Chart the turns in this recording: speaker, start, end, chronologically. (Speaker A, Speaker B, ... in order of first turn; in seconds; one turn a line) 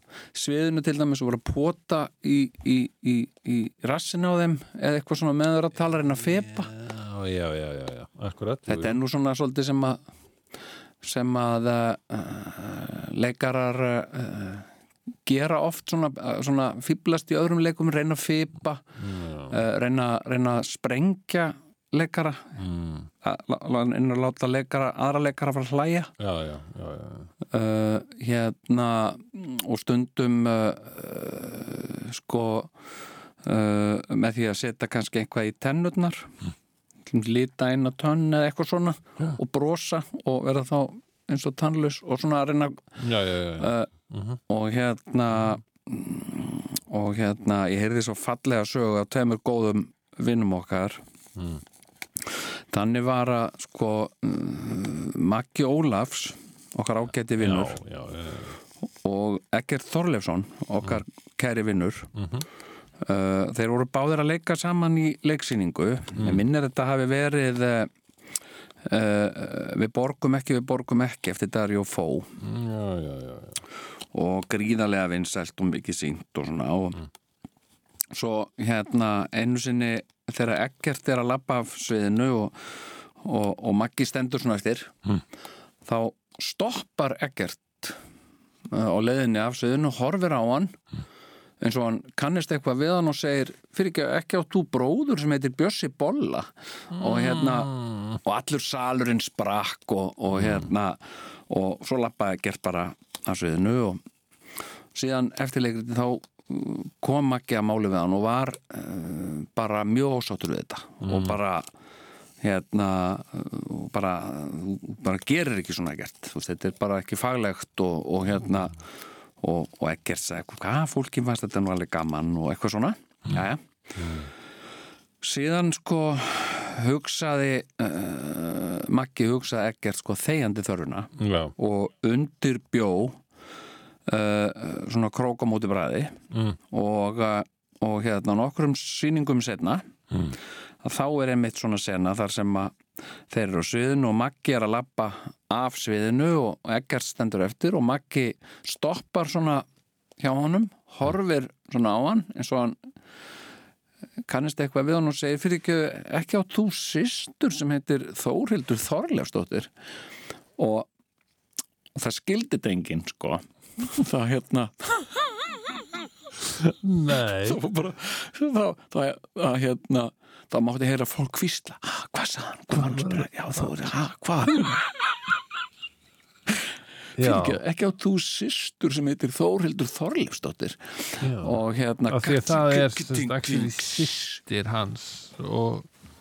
Speaker A: 0.3-6.7
Speaker B: 6.3-9.0
Speaker A: 8.7-10.0
Speaker A: 11.0-14.7
Speaker A: 15.2-18.8
Speaker B: 19.0-19.6
Speaker A: 19.5-22.5
Speaker B: 22.6-23.1
Speaker A: 23.2-26.1
Speaker B: 26.2-27.3
Speaker A: 27.5-32.7
Speaker A: 33.4-36.3
Speaker A: 37.1-43.0
Speaker B: 43.0-44.4
Speaker A: 43.6-43.9
Speaker A: 44.5-51.0
Speaker B: 51.4-51.6
Speaker A: 52.3-57.8
Speaker B: 57.4-58.6
Speaker A: 59.0-62.1
Speaker B: 62.1-62.4
Speaker A: 63.0-67.9
Speaker B: 66.2-66.4
Speaker A: 68.8-72.3
Speaker B: 72.4-73.6
Speaker A: 74.1-77.0
Speaker A: 78.1-85.0
Speaker A: 85.8-88.0
Speaker A: 88.7-90.8
Speaker A: 91.6-104.0
Speaker B: 97.0-98.2
Speaker B: 100.3-100.7
Speaker A: 104.9-111.7
Speaker B: 111.0-111.4
Speaker A: 112.4-118.8
Speaker A: 119.4-123.6
Speaker B: 124.0-124.3
Speaker A: 125.2-133.2
Speaker B: 131.2-131.5
Speaker A: 134.1-136.2
Speaker B: 136.3-136.6
Speaker A: 136.7-139.9
Speaker A: 140.8-142.8
Speaker A: 143.3-149.6
Speaker A: 150.2-152.8
Speaker A: 154.3-159.7
Speaker A: 160.6-160.9
Speaker A: 161.9-165.1
Speaker B: 166.4-167.6
Speaker A: 167.3-175.1
Speaker B: 172.7-173.9
Speaker B: 174.4-174.7
Speaker A: 176.5-184.3
Speaker B: 177.2-177.6
Speaker B: 181.2-185.9